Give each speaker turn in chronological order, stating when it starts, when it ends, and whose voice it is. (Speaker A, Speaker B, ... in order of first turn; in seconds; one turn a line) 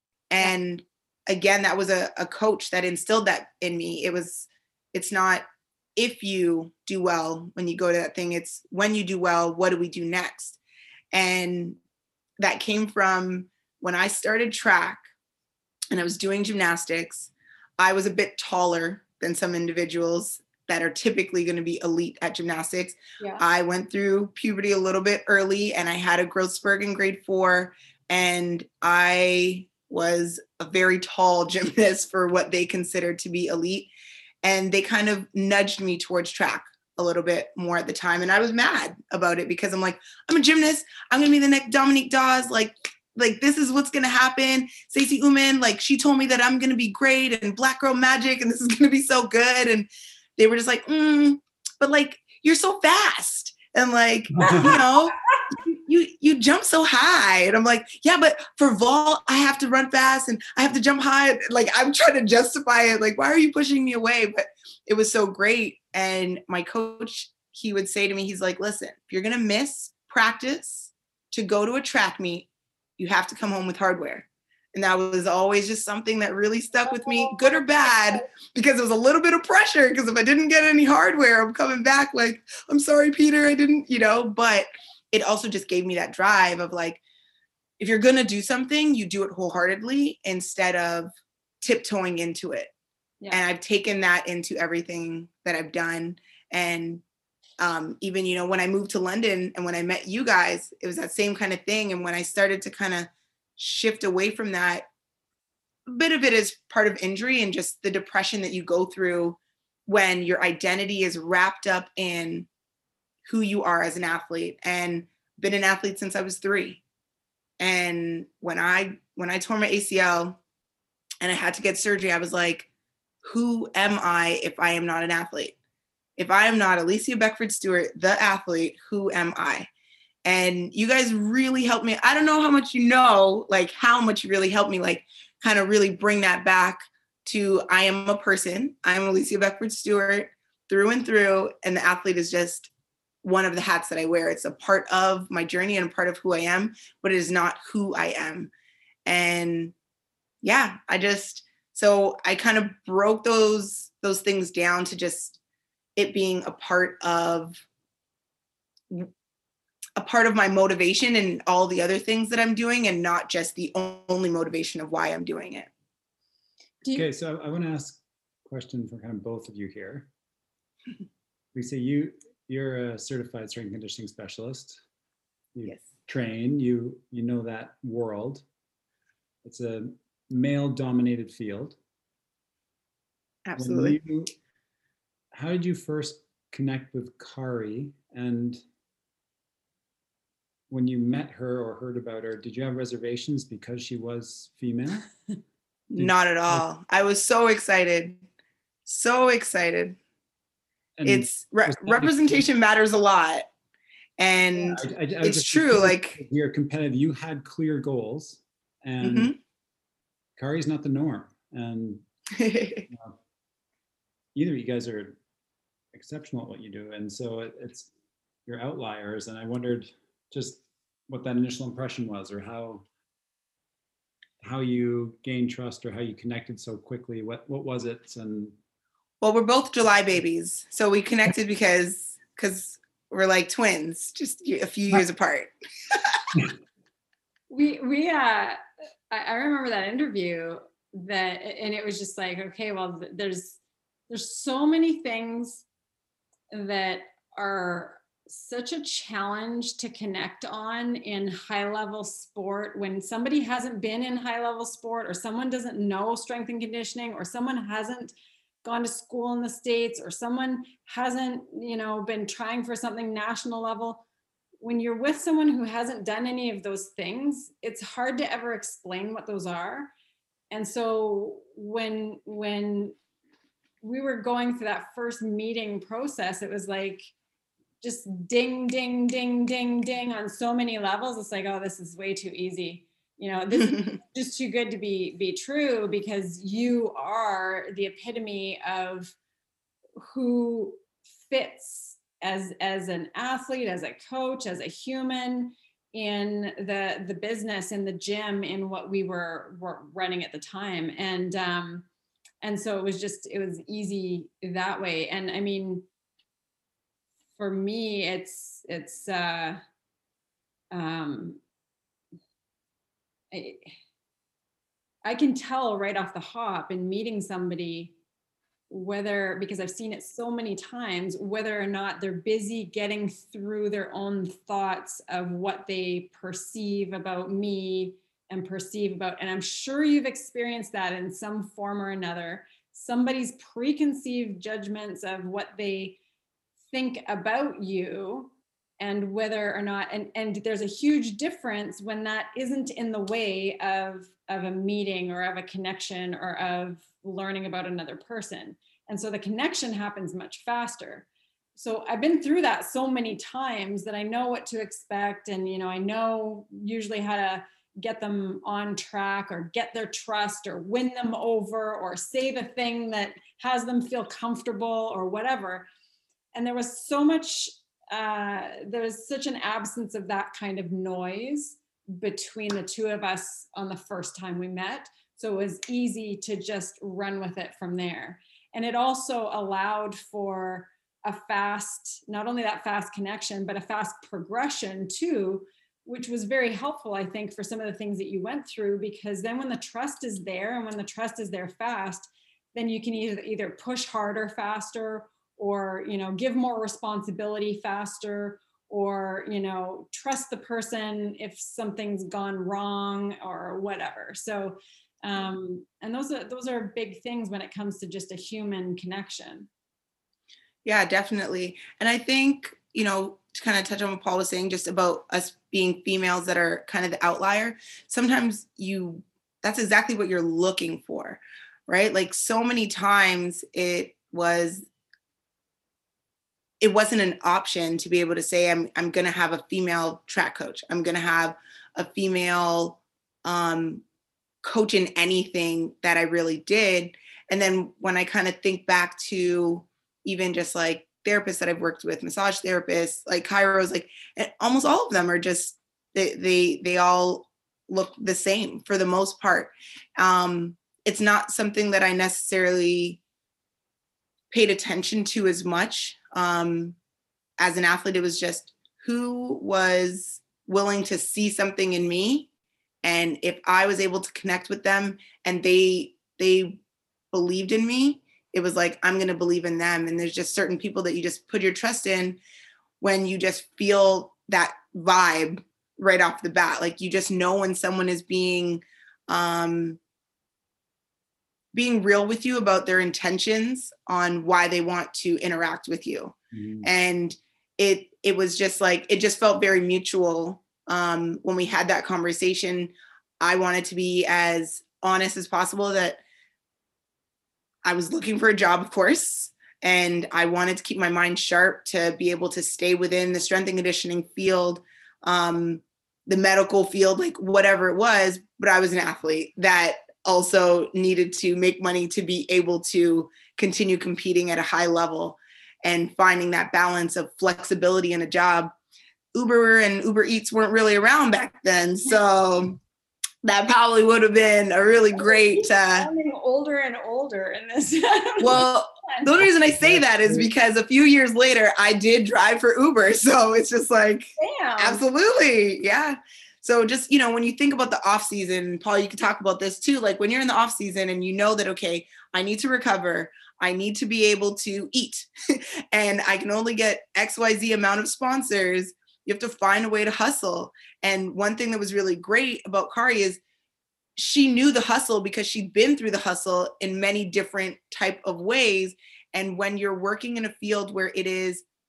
Speaker A: 0.3-5.5
Speaker A: 6.0-10.6
Speaker A: 11.1-11.8
Speaker A: 12.4-15.1
Speaker A: 15.9-33.9
Speaker A: 34.4-87.0
Speaker B: 54.3-54.8
Speaker C: 54.4-55.4
Speaker C: 76.9-78.2
Speaker A: 87.8-92.7
Speaker A: 93.3-97.0
Speaker A: 97.6-104.9
Speaker A: 105.9-112.5
Speaker A: 113.2-116.8
Speaker A: 117.6-120.4
Speaker A: 121.2-122.7
Speaker A: 123.2-125.5
Speaker A: 126.2-129.7
Speaker A: 130.2-142.7
Speaker A: 143.2-148.5
Speaker A: 149.1-149.7
Speaker A: 150.4-155.4
Speaker A: 156.0-157.6
Speaker A: 160.0-165.7
Speaker B: 166.9-170.1
Speaker B: 171.5-174.8
Speaker B: 175.6-178.4
Speaker B: 179.4-181.8
Speaker A: 183.5-184.0
Speaker B: 183.6-184.3
Speaker B: 185.3-188.6
Speaker B: 190.7-195.1
Speaker A: 195.9-198.2
Speaker B: 196.0-196.7
Speaker A: 198.9-200.0
Speaker B: 201.0-202.4
Speaker A: 201.1-203.5
Speaker A: 204.2-206.2
Speaker B: 204.6-209.3
Speaker A: 209.0-209.4
Speaker B: 210.4-212.0
Speaker A: 212.4-212.9
Speaker B: 212.9-213.2
Speaker B: 214.3-215.2
Speaker B: 215.9-217.9
Speaker B: 218.5-222.8
Speaker B: 224.4-228.6
Speaker A: 229.2-236.2
Speaker C: 237.5-238.6
Speaker C: 239.1-245.6
Speaker C: 246.5-264.0
Speaker C: 264.6-269.9
Speaker C: 270.5-273.0
Speaker C: 273.8-277.1
Speaker C: 277.8-289.1
Speaker A: 283.6-284.0
Speaker C: 290.0-301.9
Speaker C: 302.4-305.9
Speaker C: 307.4-309.6
Speaker C: 310.7-311.4
Speaker C: 313.3-313.7
Speaker C: 315.1-317.9
Speaker C: 318.7-336.0
Speaker C: 336.7-365.7
Speaker C: 366.3-409.5
Speaker A: 410.6-424.7
Speaker A: 426.6-433.8
Speaker A: 434.4-453.0
Speaker A: 454.3-456.8
Speaker A: 457.4-462.3
Speaker A: 462.8-466.6
Speaker A: 467.1-472.2
Speaker A: 472.8-479.8
Speaker A: 481.5-496.0
Speaker B: 486.3-486.7
Speaker A: 497.6-518.5
Speaker A: 519.1-522.6
Speaker A: 523.2-525.9
Speaker C: 525.0-529.3
Speaker A: 528.2-553.2
Speaker B: 529.5-530.3
Speaker C: 534.2-534.8
Speaker A: 554.0-561.5